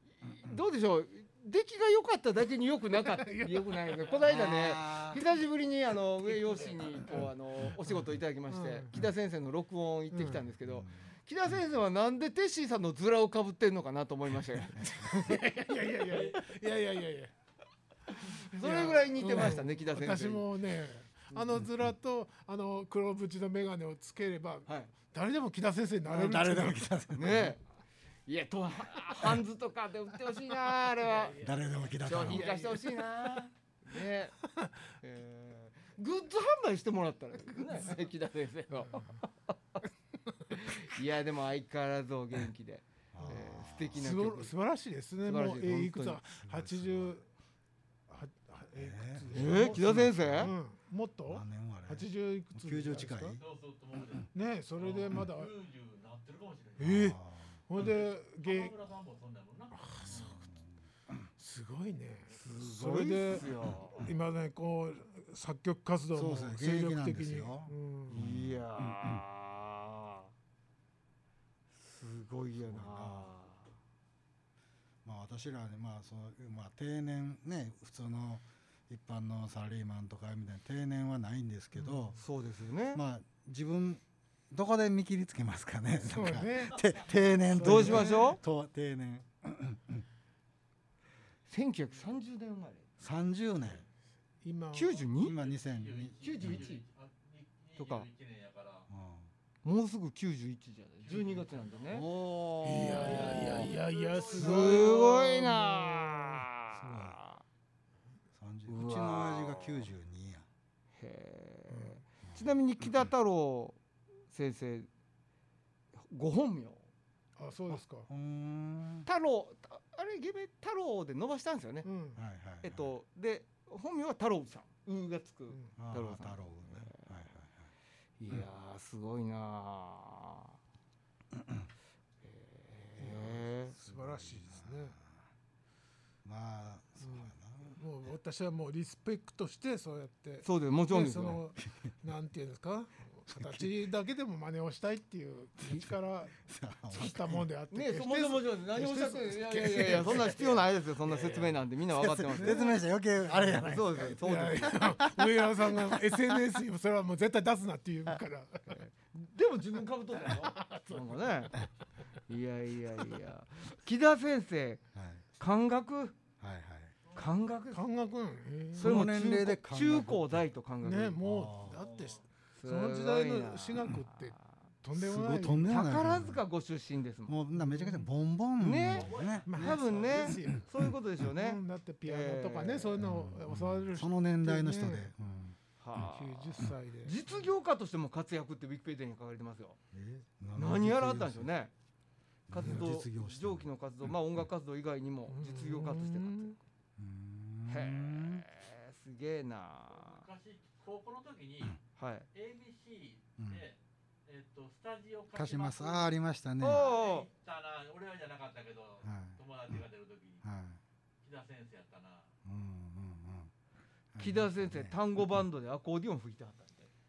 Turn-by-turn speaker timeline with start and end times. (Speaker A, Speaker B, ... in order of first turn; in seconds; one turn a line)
Speaker A: 0.2-15.1
Speaker B: 3.0-4.0
Speaker C: 4.2-5.2
Speaker B: 6.3-7.3
Speaker B: 8.5-8.9
Speaker B: 10.1-10.4
Speaker C: 10.7-10.9
Speaker B: 14.8-17.3
Speaker A: 18.1-20.5
Speaker B: 18.5-26.9
Speaker C: 21.6-21.9
Speaker A: 24.7-24.9
Speaker C: 26.1-27.6
Speaker A: 27.1-27.6
Speaker A: 28.3-31.5
Speaker B: 31.2-33.0
Speaker C: 31.4-32.5
Speaker A: 32.0-34.4
Speaker A: 35.0-39.6
Speaker B: 37.5-38.0
Speaker B: 38.8-39.1
Speaker A: 40.5-44.5
Speaker C: 43.1-44.0
Speaker B: 43.3-47.2
Speaker A: 45.2-46.2
Speaker C: 46.4-47.2
Speaker B: 48.1-53.4
Speaker C: 48.8-50.5
Speaker A: 49.3-50.5
Speaker C: 51.3-53.4
Speaker D: 53.4-57.1
Speaker B: 54.3-55.5
Speaker B: 56.8-58.7
Speaker C: 56.8-57.6
Speaker D: 57.8-60.4
Speaker B: 59.7-60.4
Speaker C: 60.1-60.7
Speaker B: 61.4-68.3
Speaker A: 62.3-64.0
Speaker C: 66.1-69.2
Speaker A: 68.1-70.3
Speaker A: 71.7-73.7
Speaker C: 72.6-73.3
Speaker C: 75.0-82.2
Speaker A: 81.9-83.0
Speaker C: 82.9-90.0
Speaker B: 86.0-86.8
Speaker B: 87.4-88.4
Speaker A: 87.6-88.4
Speaker A: 91.5-93.0
Speaker C: 93.0-93.8
Speaker B: 94.4-95.1
Speaker A: 94.7-95.4
Speaker C: 95.2-96.6
Speaker D: 95.4-98.9
Speaker A: 96.2-96.8
Speaker A: 97.8-98.1
Speaker C: 98.9-99.3
Speaker A: 99.6-102.1
Speaker D: 101.0-102.0
Speaker C: 101.9-103.8
Speaker B: 102.6-106.4
Speaker A: 102.9-103.7
Speaker A: 104.3-107.4
Speaker C: 104.4-105.0
Speaker C: 106.7-107.2
Speaker C: 108.3-110.5
Speaker A: 108.7-109.9
Speaker A: 111.0-113.8
Speaker A: 114.3-114.9
Speaker A: 116.1-116.8
Speaker B: 117.4-118.1
Speaker C: 117.7-119.1
Speaker A: 119.1-121.9
Speaker B: 121.8-122.2
Speaker C: 122.2-122.9
Speaker A: 122.6-127.2
Speaker C: 125.8-127.7
Speaker A: 128.2-130.6
Speaker C: 131.4-131.7
Speaker A: 132.2-133.7
Speaker B: 133.0-134.9
Speaker C: 133.8-135.1
Speaker C: 136.2-137.8
Speaker B: 137.7-146.4
Speaker A: 140.4-141.4
Speaker C: 143.3-143.7
Speaker C: 145.7-147.5
Speaker B: 146.9-151.6
Speaker A: 147.7-152.7
Speaker C: 149.7-150.5
Speaker C: 151.9-154.2
Speaker B: 152.4-152.8
Speaker B: 153.3-158.8
Speaker A: 153.6-154.8
Speaker C: 154.8-156.6
Speaker A: 158.8-161.6
Speaker B: 160.3-161.7
Speaker A: 162.3-164.8
Speaker C: 164.9-165.2
Speaker A: 165.4-166.2
Speaker C: 166.4-166.9
Speaker A: 167.2-167.8
Speaker B: 167.7-169.0
Speaker C: 168.7-170.4
Speaker A: 168.8-171.2
Speaker B: 170.8-175.9
Speaker C: 171.2-171.8
Speaker D: 171.8-172.2
Speaker A: 172.6-174.5
Speaker C: 174.9-176.4
Speaker A: 175.7-177.3
Speaker C: 177.3-180.9
Speaker B: 177.5-178.1
Speaker A: 178.6-183.0
Speaker D: 178.9-180.4
Speaker B: 179.5-180.7
Speaker B: 181.2-185.1
Speaker C: 183.0-185.6
Speaker A: 185.8-189.8
Speaker B: 185.9-187.4
Speaker C: 189.9-191.5
Speaker A: 190.6-191.7
Speaker C: 192.5-193.7
Speaker A: 192.5-196.6
Speaker B: 195.3-196.6
Speaker C: 197.0-198.4
Speaker A: 197.7-200.2
Speaker D: 199.9-201.8
Speaker A: 202.0-202.3
Speaker D: 202.3-210.4
Speaker C: 203.4-203.6
Speaker C: 205.3-206.8
Speaker A: 206.6-207.3
Speaker C: 209.0-209.4
Speaker C: 210.4-210.8
Speaker D: 211.2-212.3
Speaker C: 212.4-213.5
Speaker C: 214.1-215.2
Speaker A: 214.2-216.9